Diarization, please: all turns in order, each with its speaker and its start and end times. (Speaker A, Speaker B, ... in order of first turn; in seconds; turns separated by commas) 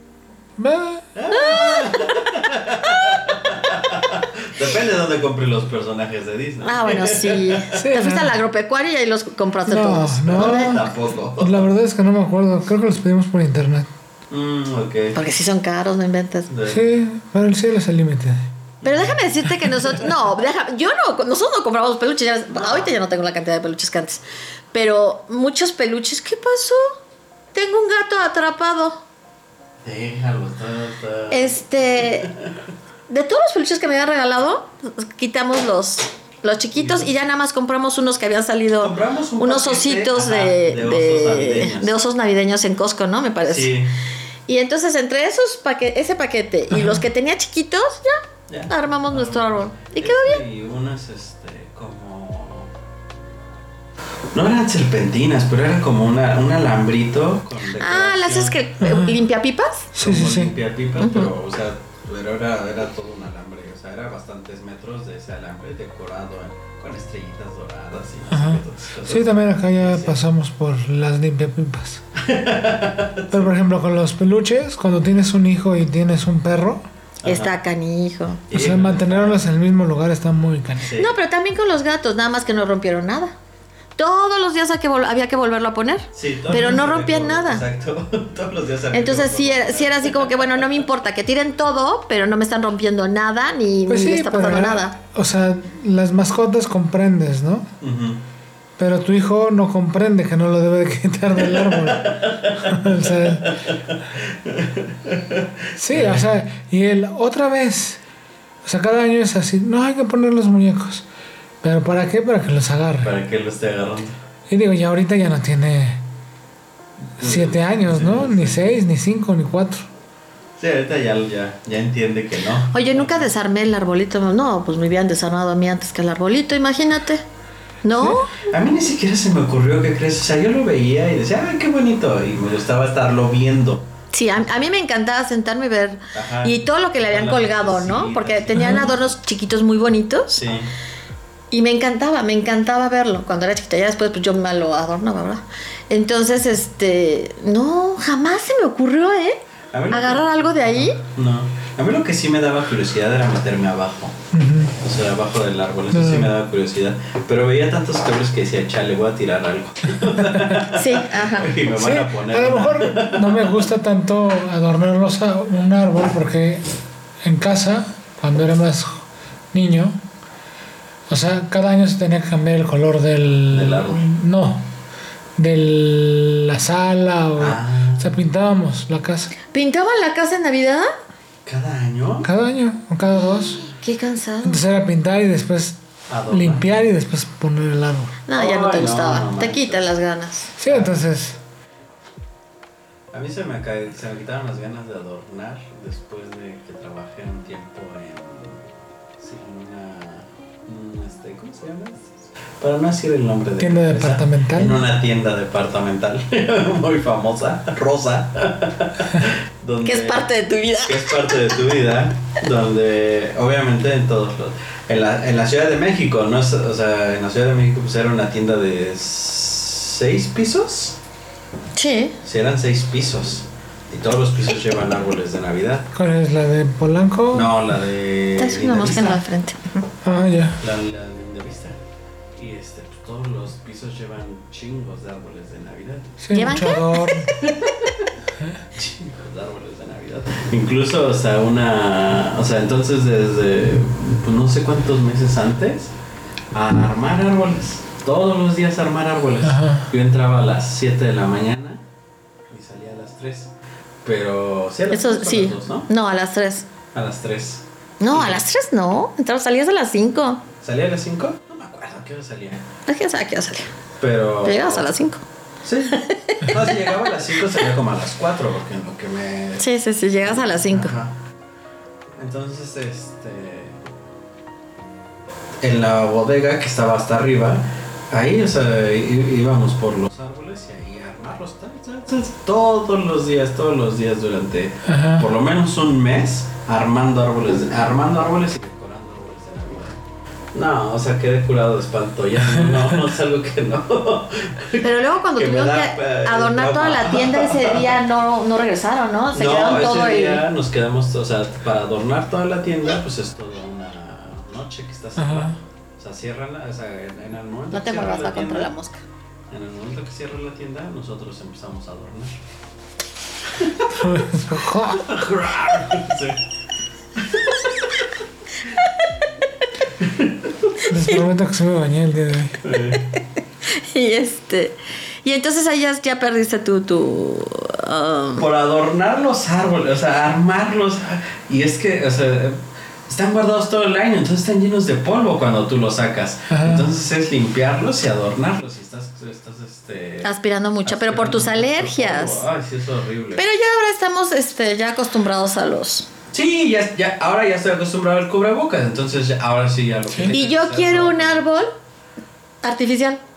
Speaker A: 0.6-1.1, Speaker B: 1.1-7.8, Speaker C: 1.3-2.3, Speaker C: 2.9-3.2, Speaker C: 6.6-10.9, Speaker A: 7.8-8.3, Speaker A: 9.7-10.8, Speaker B: 10.3-11.7, Speaker A: 11.4-13.9, Speaker B: 14.3-15.2, Speaker C: 15.2-16.5, Speaker B: 16.5-16.8, Speaker A: 16.7-18.4, Speaker B: 18.8-19.9, Speaker C: 18.8-24.2, Speaker B: 22.6-22.9, Speaker C: 24.7-27.0, Speaker C: 27.5-29.0, Speaker B: 29.8-32.5, Speaker C: 31.3-32.3, Speaker C: 33.1-43.7, Speaker B: 36.8-37.1, Speaker B: 38.8-41.9, Speaker B: 43.5-44.0, Speaker C: 44.5-50.5, Speaker A: 46.7-47.0, Speaker B: 48.5-52.7, Speaker B: 54.3-58.6, Speaker C: 57.8-59.9, Speaker A: 58.8-59.2, Speaker A: 60.0-60.5, Speaker B: 60.0-70.2, Speaker C: 61.0-61.3, Speaker A: 68.3-72.0, Speaker B: 72.2-73.5, Speaker A: 73.3-76.8, Speaker B: 77.2-77.6, Speaker C: 77.2-78.5, Speaker B: 78.5-79.4, Speaker A: 78.5-81.0, Speaker B: 80.8-81.2, Speaker C: 81.0-83.3, Speaker C: 84.0-87.6, Speaker B: 86.1-90.7, Speaker A: 86.5-86.8, Speaker C: 88.9-95.0, Speaker A: 93.9-97.7, Speaker B: 97.8-98.2, Speaker A: 98.8-103.5, Speaker B: 101.4-106.3, Speaker A: 105.8-108.0, Speaker A: 108.6-111.0, Speaker A: 111.6-113.1, Speaker B: 113.0-114.2, Speaker A: 114.5-116.0, Speaker B: 117.2-118.7, Speaker A: 117.2-119.9, Speaker B: 120.6-123.3, Speaker C: 122.7-127.2, Speaker C: 127.8-128.3, Speaker B: 128.4-133.8, Speaker C: 134.1-140.5, Speaker B: 136.1-139.1, Speaker A: 138.5-138.9, Speaker B: 140.4-140.7, Speaker C: 141.5-149.4, Speaker B: 149.7-154.2, Speaker C: 149.9-151.0, Speaker A: 154.3-154.8, Speaker B: 154.8-163.6, Speaker A: 155.9-156.3, Speaker A: 160.2-160.6, Speaker C: 160.7-161.5, Speaker A: 161.7-166.6, Speaker A: 167.2-170.0, Speaker A: 171.1-174.7, Speaker B: 173.5-174.1, Speaker A: 175.4-179.3, Speaker B: 177.4-178.1, Speaker C: 179.5-180.9, Speaker B: 181.4-182.3, Speaker A: 182.2-183.6, Speaker C: 183.8-184.6, Speaker A: 184.4-185.8, Speaker B: 186.1-186.7, Speaker A: 186.3-188.2, Speaker C: 188.3-190.5, Speaker B: 188.3-189.9, Speaker A: 190.6-191.4, Speaker B: 190.7-191.0, Speaker B: 193.1-198.6, Speaker B: 199.2-210.3, Speaker A: 203.6-204.8, Speaker C: 209.8-211.6, Speaker B: 210.8-221.0, Speaker C: 221.8-222.2, Speaker B: 222.2-225.9, Speaker A: 225.9-227.5, Speaker B: 227.3-229.2, Speaker C: 228.4-229.8, Speaker A: 230.0-230.6, Speaker B: 230.6-231.8, Speaker B: 232.4-236.2, Speaker A: 236.2-237.3, Speaker C: 236.3-237.8, Speaker B: 237.4-238.1, Speaker B: 238.7-245.9, Speaker B: 246.5-251.8, Speaker A: 249.4-249.9, Speaker B: 252.5-253.5, Speaker B: 254.1-255.9, Speaker C: 254.9-256.7, Speaker B: 256.9-258.4, Speaker C: 258.0-260.4, Speaker B: 260.6-262.7, Speaker C: 262.9-263.7, Speaker B: 264.0-264.9, Speaker C: 264.4-265.2, Speaker B: 265.6-269.6, Speaker C: 265.9-267.0, Speaker C: 269.6-270.9, Speaker B: 270.2-271.1, Speaker B: 272.2-273.8, Speaker B: 275.6-290.0, Speaker A: 284.9-285.3, Speaker B: 290.5-298.0, Speaker C: 294.8-300.4, Speaker B: 299.3-308.7, Speaker A: 305.2-305.6, Speaker C: 307.7-309.0, Speaker B: 309.5-312.4, Speaker B: 313.5-314.1, Speaker A: 313.9-315.1, Speaker B: 314.9-316.4, Speaker B: 317.2-318.1, Speaker C: 318.8-319.3, Speaker B: 320.0-320.8, Speaker A: 320.9-322.6, Speaker C: 320.9-321.2, Speaker B: 322.6-323.1, Speaker C: 323.7-328.4, Speaker B: 328.4-340.3, Speaker A: 336.5-336.9, Speaker C: 340.2-342.4, Speaker B: 340.9-343.4, Speaker C: 343.4-346.1, Speaker B: 346.3-351.4, Speaker C: 350.3-351.7, Speaker C: 352.6-353.2